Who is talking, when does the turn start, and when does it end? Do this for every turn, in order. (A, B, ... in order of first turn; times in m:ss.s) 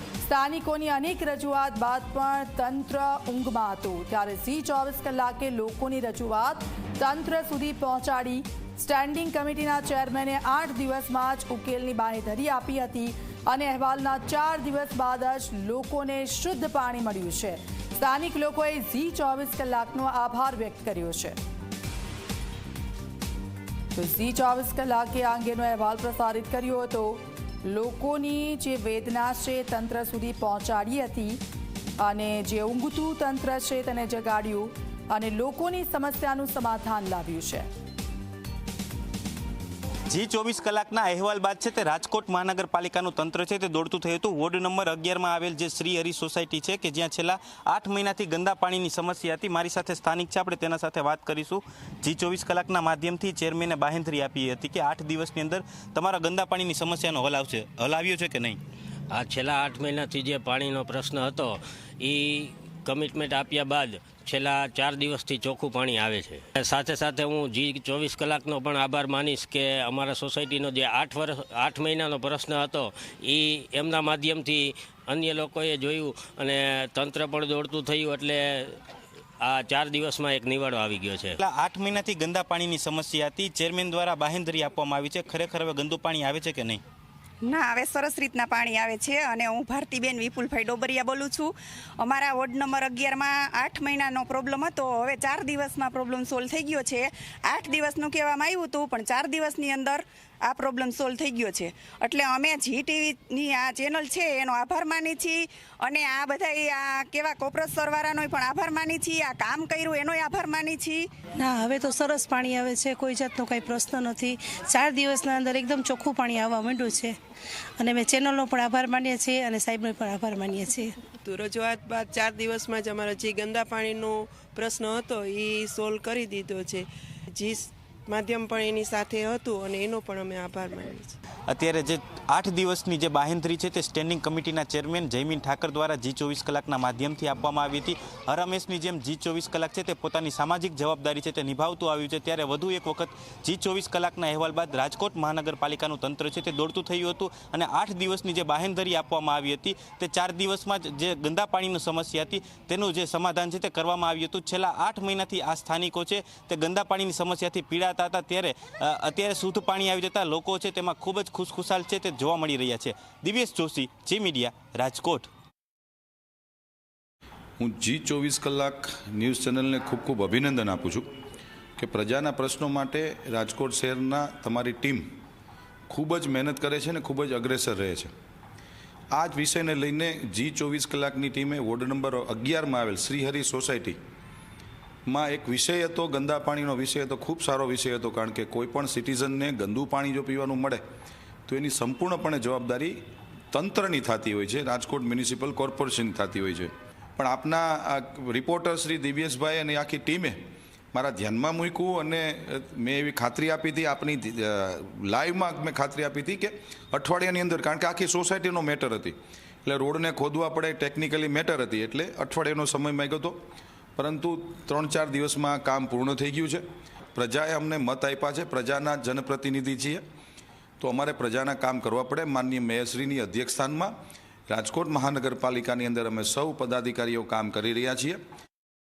0:00.2-0:21.4 A
0:24.0-0:31.4 A
0:32.0-0:37.7 A
0:40.1-0:58.6 B
0:59.1-1:18.8 C
1:19.4-1:21.4 C
1:21.4-1:26.8 B
1:27.4-1:51.1 D
1:51.4-1:57.0 E
1:57.8-2:00.8 E
2:01.2-2:11.2 F
2:11.5-2:45.3 B
2:47.6-2:51.1 G
2:51.8-2:55.1 G
2:55.9-2:58.1 G
2:59.1-3:04.0 G
3:05.1-3:10.8 G
3:11.5-3:13.0 G
3:13.5-3:20.4 G
3:20.9-3:33.4 G
3:34.0-3:36.6 G
3:37.2-3:40.0 G
3:40.8-3:43.9 G
3:44.5-3:48.2 G